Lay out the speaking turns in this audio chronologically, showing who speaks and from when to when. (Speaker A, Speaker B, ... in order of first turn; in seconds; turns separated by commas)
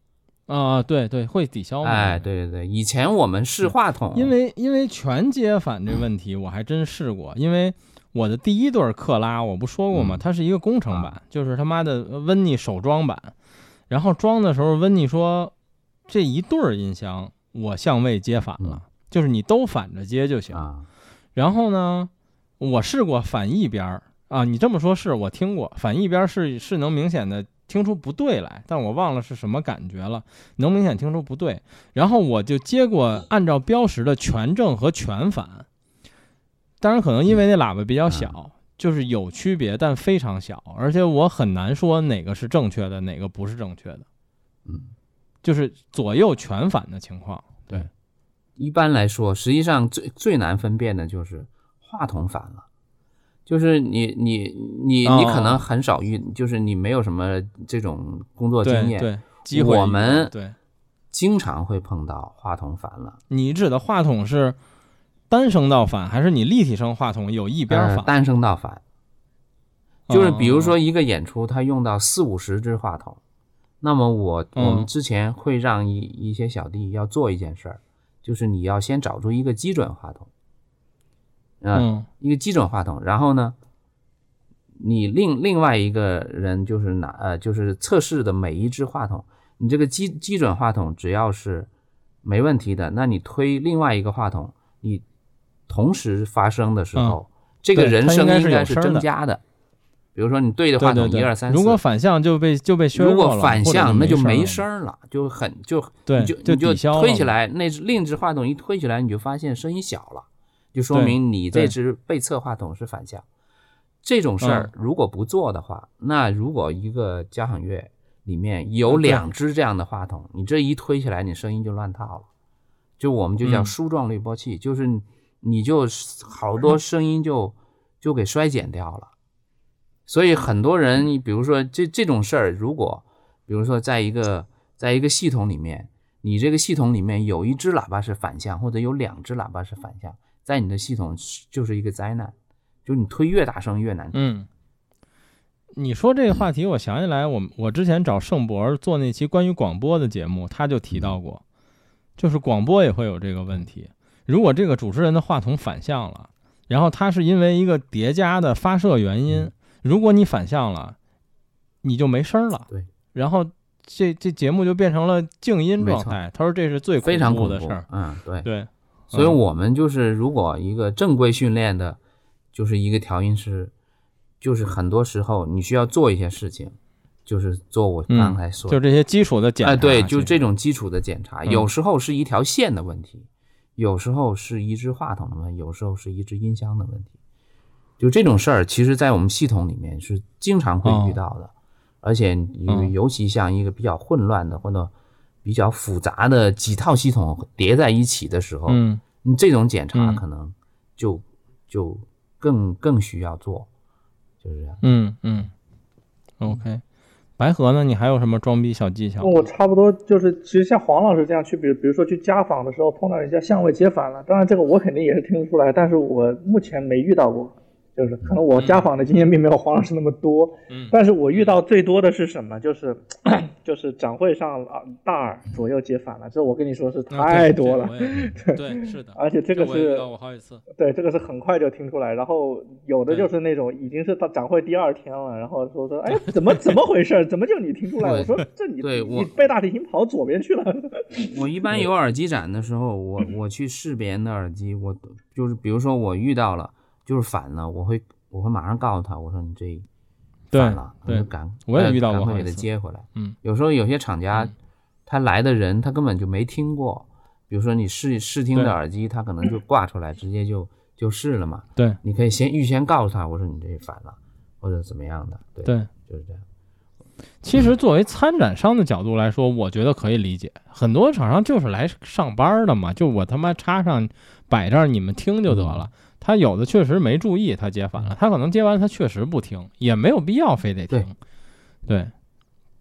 Speaker A: 0.5-2.2, Speaker B: 1.8-4.3, Speaker A: 3.6-13.3, Speaker B: 9.9-10.2, Speaker A: 13.9-15.5, Speaker A: 16.1-20.6, Speaker B: 20.5-20.9, Speaker A: 21.4-35.7, Speaker A: 36.8-44.0, Speaker B: 38.1-38.3, Speaker B: 44.7-44.9, Speaker A: 45.4-47.9, Speaker B: 48.6-52.7, Speaker B: 53.5-60.3, Speaker A: 55.0-55.6, Speaker A: 58.6-60.5, Speaker B: 61.1-63.2, Speaker A: 63.3-64.6, Speaker A: 65.3-68.1, Speaker B: 67.7-68.8, Speaker A: 70.1-70.8, Speaker B: 70.1-73.2, Speaker B: 73.8-80.3, Speaker A: 74.6-74.9, Speaker B: 81.6-83.5, Speaker A: 81.7-82.1, Speaker B: 84.8-91.7, Speaker B: 92.2-95.0, Speaker B: 95.7-99.4, Speaker A: 97.8-99.1, Speaker B: 100.2-101.8, Speaker A: 100.8-104.6, Speaker B: 102.9-113.2, Speaker A: 106.1-107.3, Speaker A: 110.9-111.7, Speaker B: 114.0-122.3, Speaker A: 114.4-114.7, Speaker A: 118.9-119.3, Speaker B: 123.0-129.1, Speaker A: 123.4-123.7, Speaker B: 130.1-144.2, Speaker A: 144.1-144.5, Speaker A: 145.8-151.4, Speaker B: 150.9-151.2, Speaker A: 152.2-161.0, Speaker A: 161.8-167.8, Speaker B: 165.8-166.2, Speaker B: 167.0-168.5, Speaker A: 168.4-169.4, Speaker B: 169.1-172.0, Speaker B: 172.5-173.7, Speaker B: 174.4-178.8, Speaker A: 178.1-180.3, Speaker B: 179.6-187.1, Speaker B: 188.0-194.9, Speaker A: 190.8-191.2, Speaker A: 192.7-192.9, Speaker B: 195.4-203.7, Speaker A: 198.7-199.0, Speaker A: 199.9-200.2, Speaker B: 204.4-204.8, Speaker A: 204.8-205.5, Speaker A: 206.4-206.8, Speaker A: 207.4-209.5, Speaker C: 209.2-230.1, Speaker A: 218.6-218.8, Speaker A: 220.7-221.6, Speaker A: 227.1-230.6, Speaker C: 230.8-241.3, Speaker A: 236.1-236.6, Speaker B: 238.0-239.3, Speaker B: 241.2-249.9, Speaker A: 250.5-253.4, Speaker B: 250.5-254.5, Speaker B: 255.1-266.4, Speaker A: 267.4-281.1, Speaker B: 275.5-275.9, Speaker A: 281.9-282.1